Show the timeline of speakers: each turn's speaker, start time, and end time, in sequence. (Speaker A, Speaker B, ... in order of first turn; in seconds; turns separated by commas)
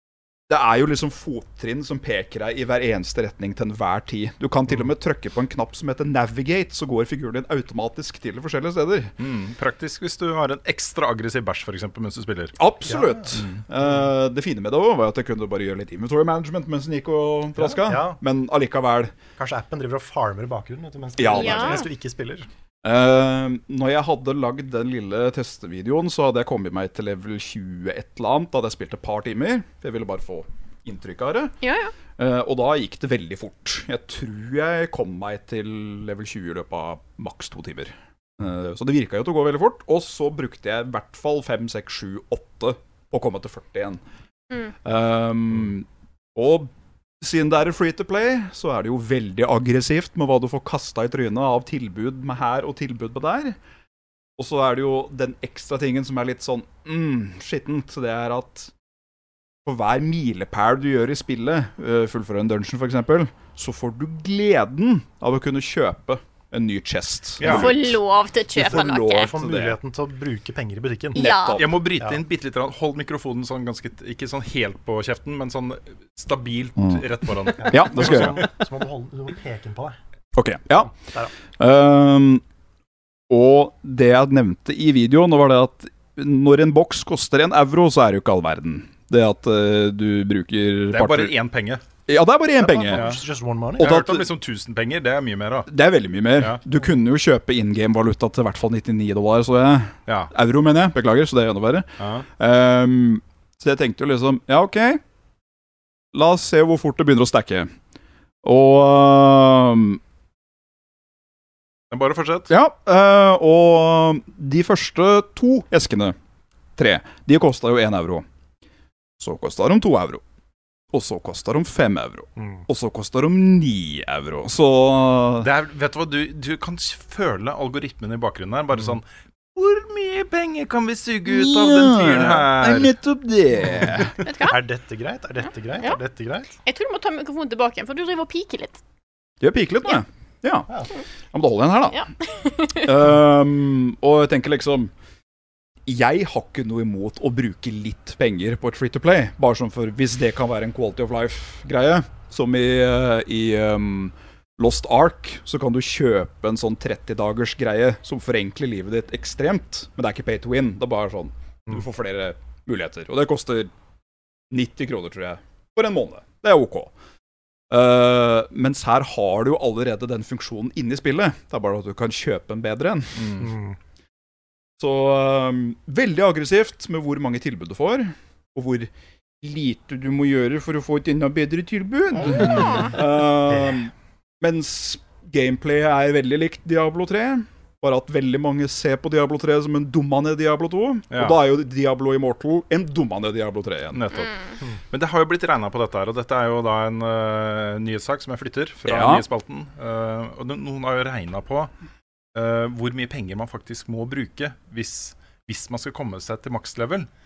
Speaker A: 0.5-9.1, Speaker B: 9.2-12.6, Speaker A: 12.6-19.1, Speaker C: 12.9-13.3, Speaker B: 13.3-13.6, Speaker C: 17.6-18.2, Speaker C: 19.4-22.5, Speaker A: 21.2-21.9, Speaker D: 21.3-21.9, Speaker A: 22.8-31.5, Speaker D: 31.6-31.9, Speaker A: 32.2-44.0, Speaker A: 44.8-53.6, Speaker A: 54.4-58.7, Speaker A: 59.6-68.0, Speaker B: 67.4-67.7, Speaker D: 67.4-69.3, Speaker A: 68.5-69.8, Speaker C: 69.2-71.2, Speaker A: 71.1-71.8, Speaker D: 71.1-71.6, Speaker B: 71.6-78.5, Speaker A: 76.8-77.0, Speaker C: 77.6-80.0, Speaker A: 77.6-78.5, Speaker A: 80.3-81.0, Speaker A: 81.6-82.4, Speaker A: 83.3-91.3, Speaker B: 90.9-91.8, Speaker A: 92.1-93.2, Speaker C: 92.6-94.0, Speaker B: 92.9-93.2, Speaker A: 93.8-94.3, Speaker B: 93.8-95.7, Speaker A: 95.7-105.0, Speaker B: 102.0-102.3, Speaker A: 106.1-107.7, Speaker A: 108.4-110.0, Speaker B: 111.9-112.5, Speaker A: 112.5-116.2, Speaker A: 116.8-118.3, Speaker A: 119.2-120.2, Speaker A: 120.9-125.5, Speaker C: 122.4-122.7, Speaker B: 125.4-129.0, Speaker B: 129.6-132.9, Speaker A: 131.3-134.1, Speaker D: 134.2-134.6, Speaker C: 134.4-136.5, Speaker D: 136.7-138.8, Speaker A: 139.4-140.7, Speaker A: 141.3-142.1, Speaker D: 141.9-142.9, Speaker A: 142.8-144.9, Speaker A: 145.9-163.7, Speaker A: 164.5-166.9, Speaker A: 167.7-173.4, Speaker B: 173.2-173.5, Speaker C: 173.4-173.8, Speaker A: 174.8-194.0, Speaker C: 182.4-182.8, Speaker D: 182.6-182.9, Speaker C: 183.5-183.8, Speaker B: 191.1-191.4, Speaker B: 193.9-194.4, Speaker B: 194.9-201.7, Speaker A: 198.8-199.3, Speaker B: 202.3-207.1